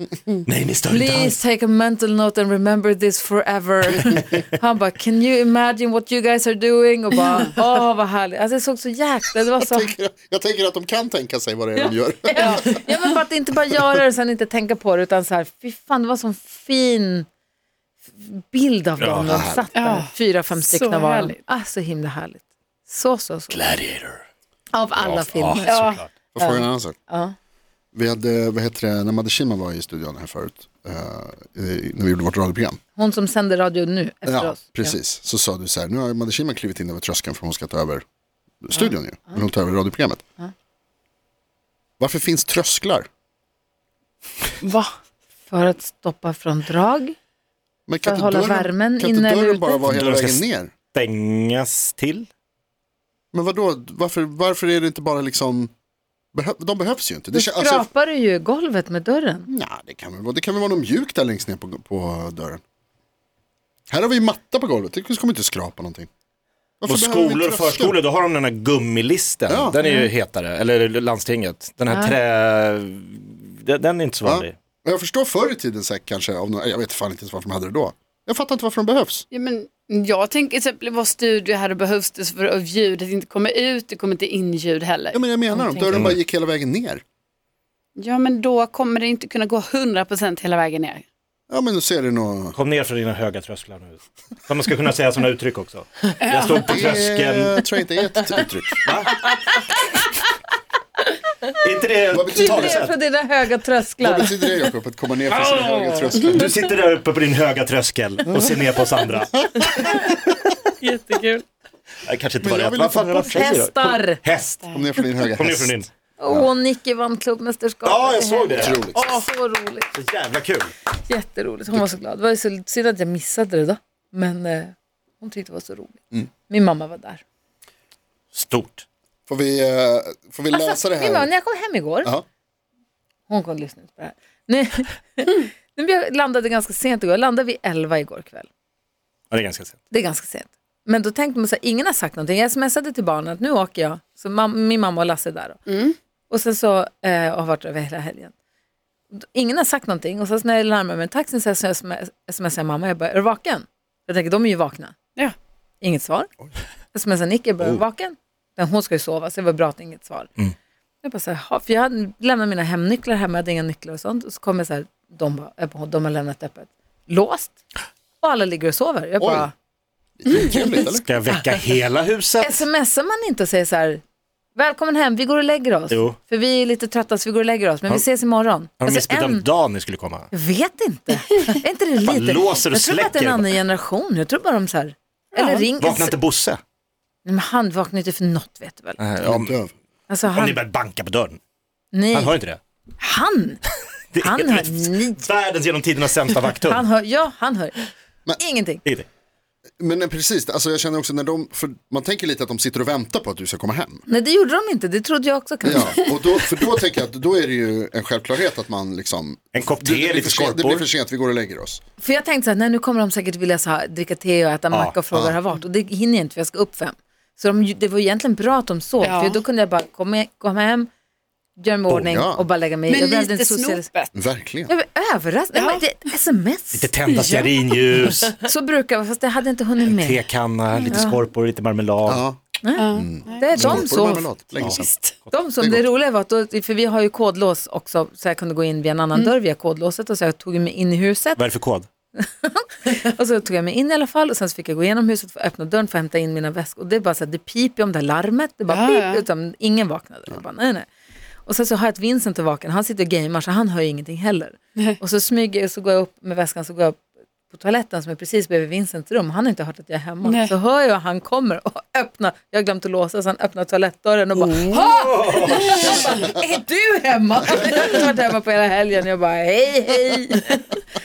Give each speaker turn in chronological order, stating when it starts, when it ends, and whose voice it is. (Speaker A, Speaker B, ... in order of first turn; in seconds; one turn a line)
Speaker A: 0.5-1.4
Speaker B: 0.9-9.9
Speaker C: 9.6-12.8
Speaker B: 12.3-17.3
Speaker D: 12.4-12.8
Speaker B: 18.2-23.6
Speaker A: 19.0-19.6
Speaker C: 19.3-19.6
Speaker D: 19.8-21.4
Speaker A: 23.5-24.2
Speaker B: 24.7-27.4
Speaker A: 25.0-26.1
Speaker D: 25.6-26.0
Speaker C: 26.3-27.0
Speaker C: 27.9-32.8
Speaker B: 33.0-35.0
Speaker C: 34.3-38.0
Speaker C: 38.6-40.2
Speaker B: 38.7-39.4
Speaker C: 42.0-43.1
Speaker E: 44.6-44.9
Speaker B: 45.5-47.2
Speaker C: 47.9-50.7
Speaker B: 48.0-49.8
Speaker A: 49.9-52.3
Speaker C: 53.3-55.7
Speaker C: 56.3-57.9
Speaker B: 57.3-59.5
Speaker C: 59.5-62.6
Speaker C: 63.9-66.1
Speaker C: 66.8-68.0
Speaker A: 66.9-74.5
Speaker C: 69.5-69.8
Speaker B: 69.8-70.1
Speaker B: 71.9-72.2
Speaker C: 74.2-79.2
Speaker D: 79.3-85.2
Speaker C: 85.1-87.0
Speaker E: 85.5-86.0
Speaker A: 85.9-86.2
Speaker D: 88.0-91.0
Speaker C: 91.5-92.6
Speaker A: 92.5-97.6
Speaker D: 96.2-96.7
Speaker C: 96.7-98.8
Speaker A: 98.8-99.2
Speaker A: 101.6-103.0
Speaker C: 102.1-102.9
Speaker B: 102.3-104.3
Speaker C: 104.0-106.5
Speaker A: 105.3-110.0
Speaker E: 110.8-111.4
Speaker A: 112.1-114.7
Speaker C: 112.4-113.5
Speaker B: 113.3-114.2
Speaker C: 114.7-115.8
Speaker A: 115.3-115.9
Speaker B: 116.2-119.9
Speaker A: 117.8-118.8
Speaker C: 118.5-119.2
Speaker A: 119.9-120.7
Speaker B: 121.0-127.2
Speaker A: 128.3-128.8
Speaker C: 129.3-131.3
Speaker B: 130.5-132.1
Speaker B: 133.3-138.5
Speaker A: 139.3-139.8
Speaker B: 139.9-145.6
Speaker D: 145.7-146.0
Speaker B: 146.3-148.3
Speaker B: 149.2-154.9
Speaker B: 155.8-156.3
Speaker B: 156.9-160.3
Speaker B: 161.0-167.6
Speaker B: 168.2-169.5
Speaker C: 169.2-169.5
Speaker C: 170.2-171.1
Speaker A: 171.1-172.6
Speaker B: 172.4-174.0
Speaker B: 174.6-179.5
Speaker A: 175.9-176.2
Speaker A: 178.8-180.3
Speaker B: 180.3-186.2
Speaker A: 182.0-183.5
Speaker A: 185.8-186.6
Speaker B: 187.2-189.0
Speaker A: 189.0-189.6
Speaker C: 189.2-189.7
Speaker B: 190.1-190.6
Speaker A: 190.3-191.4
Speaker B: 191.9-192.3
Speaker A: 192.1-192.6
Speaker B: 193.0-193.6
Speaker A: 194.1-196.8
Speaker B: 194.2-195.2
Speaker B: 196.6-197.8
Speaker B: 198.4-198.8
Speaker C: 199.8-204.1
Speaker B: 204.1-206.1
Speaker C: 205.6-211.8
Speaker A: 209.6-210.9
Speaker B: 212.0-220.9
Speaker A: 214.7-215.0
Speaker D: 219.0-219.4
Speaker B: 221.6-223.9
Speaker C: 221.9-222.5
Speaker D: 222.9-224.1
Speaker C: 224.1-224.7
Speaker B: 224.7-226.9
Speaker D: 225.5-225.8
Speaker A: 226.7-228.4
Speaker D: 227.1-227.6
Speaker B: 228.2-230.2
Speaker A: 229.8-232.2
Speaker B: 230.9-231.2
Speaker C: 232.1-232.4
Speaker B: 232.6-234.3
Speaker D: 232.8-233.6
Speaker C: 232.9-234.9
Speaker A: 233.6-233.9
Speaker D: 234.7-235.2
Speaker B: 235.3-241.4
Speaker A: 241.4-241.9
Speaker B: 242.2-250.9
Speaker D: 248.7-249.2
Speaker B: 251.5-257.0
Speaker B: 257.5-270.8
Speaker D: 260.2-260.5
Speaker E: 264.8-266.2
Speaker A: 264.8-266.1
Speaker D: 265.4-265.9